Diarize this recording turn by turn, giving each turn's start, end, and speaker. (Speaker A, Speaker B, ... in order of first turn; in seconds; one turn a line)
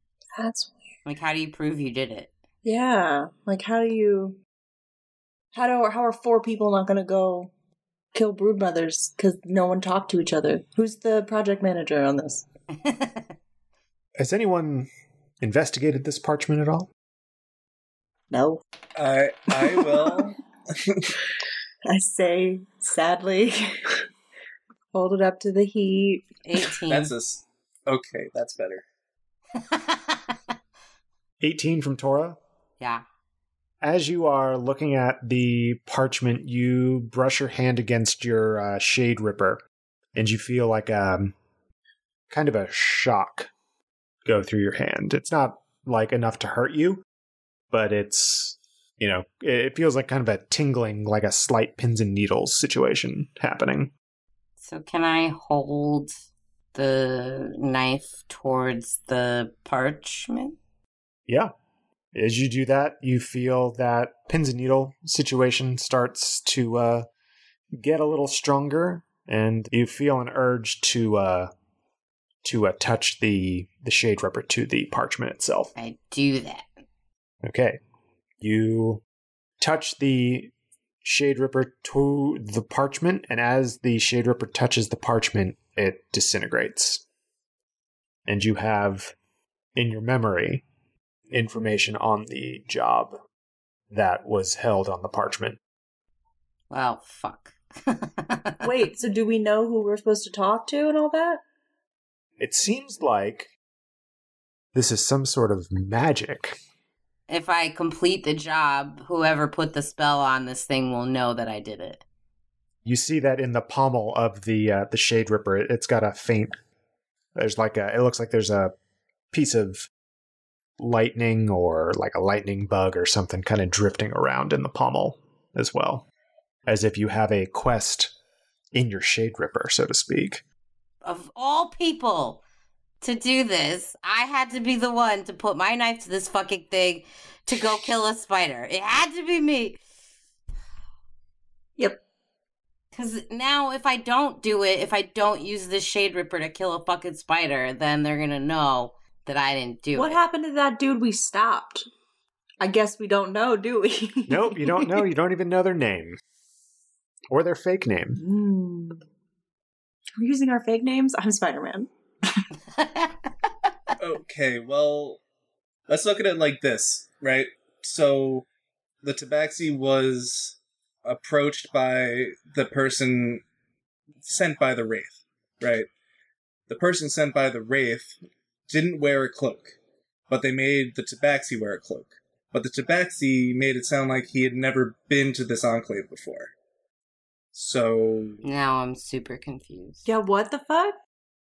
Speaker A: 0.3-0.8
Speaker B: 1.0-2.3
Speaker A: 2.6-4.4
Speaker A: 5.5-7.5
Speaker A: 8.1-12.4
Speaker B: 12.8-13.3
Speaker C: 14.2-14.9
Speaker C: 15.4-16.9
Speaker A: 18.3-18.6
Speaker D: 18.9-21.1
Speaker A: 21.9-24.0
Speaker A: 24.9-26.2
Speaker B: 26.4-27.1
Speaker D: 26.9-28.8
Speaker B: 29.6-30.3
Speaker C: 31.4-32.4
Speaker C: 33.8-39.6
Speaker C: 40.1-41.4
Speaker C: 42.3-43.5
Speaker C: 44.2-47.0
Speaker C: 47.7-53.9
Speaker B: 54.6-56.1
Speaker B: 56.7-60.6
Speaker C: 62.1-67.1
Speaker C: 67.8-71.5
Speaker C: 72.4-75.7
Speaker B: 75.8-76.7
Speaker C: 77.4-77.8
Speaker C: 78.4-79.0
Speaker C: 79.6-87.0
Speaker C: 88.2-89.1
Speaker C: 89.7-90.6
Speaker C: 91.3-93.1
Speaker C: 93.9-95.6
Speaker B: 96.7-98.7
Speaker A: 98.6-101.4
Speaker C: 102.4-103.5
Speaker C: 104.7-106.6
Speaker B: 107.3-112.0
Speaker C: 112.8-116.5
Speaker C: 117.3-118.7
Speaker C: 119.3-119.9
Speaker C: 120.8-126.1
Speaker C: 126.7-128.1
Speaker C: 128.7-130.4
Speaker B: 131.0-132.4
Speaker B: 133.0-139.8
Speaker B: 142.9-150.2
Speaker A: 149.9-151.8
Speaker A: 152.6-155.1
Speaker C: 154.3-156.2
Speaker C: 157.3-158.2
Speaker A: 158.2-159.0
Speaker A: 160.2-162.4
Speaker B: 162.8-163.1
Speaker D: 164.0-165.2
Speaker D: 165.9-168.4
Speaker D: 169.0-173.4
Speaker D: 174.2-175.9
Speaker D: 176.7-178.1
Speaker D: 178.7-179.8
Speaker D: 180.3-186.5
Speaker D: 187.5-188.4
Speaker B: 188.4-190.1
Speaker A: 190.0-190.9